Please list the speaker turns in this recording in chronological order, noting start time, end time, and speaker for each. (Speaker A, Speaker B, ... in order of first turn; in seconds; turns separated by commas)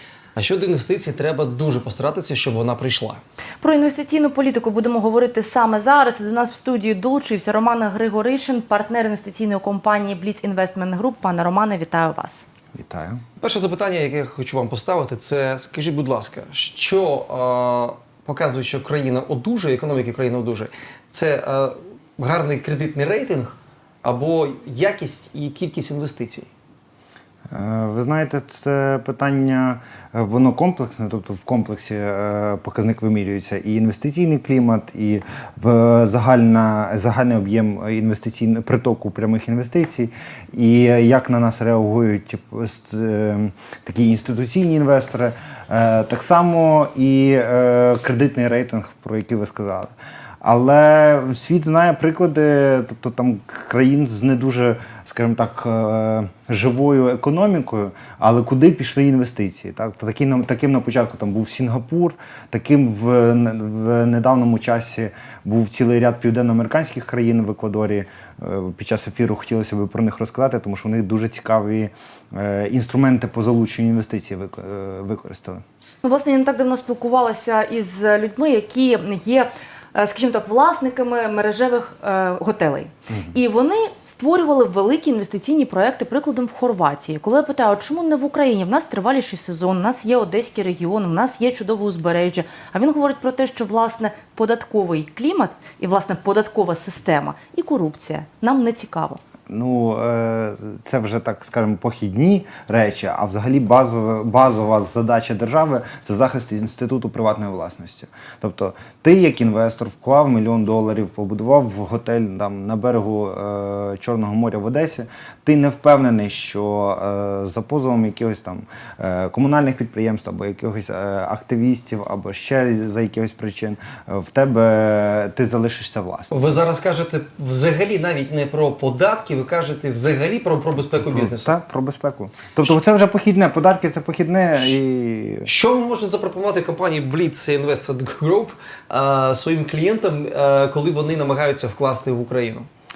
Speaker A: 0.3-3.2, Speaker B: 3.6-12.4, Speaker C: 12.7-13.2, Speaker A: 13.4-26.5, Speaker C: 27.5-75.6, Speaker B: 76.0-99.2, Speaker C: 99.5-126.5, Speaker A: 126.3-131.5, Speaker C: 131.0-135.5, Speaker A: 135.4-142.7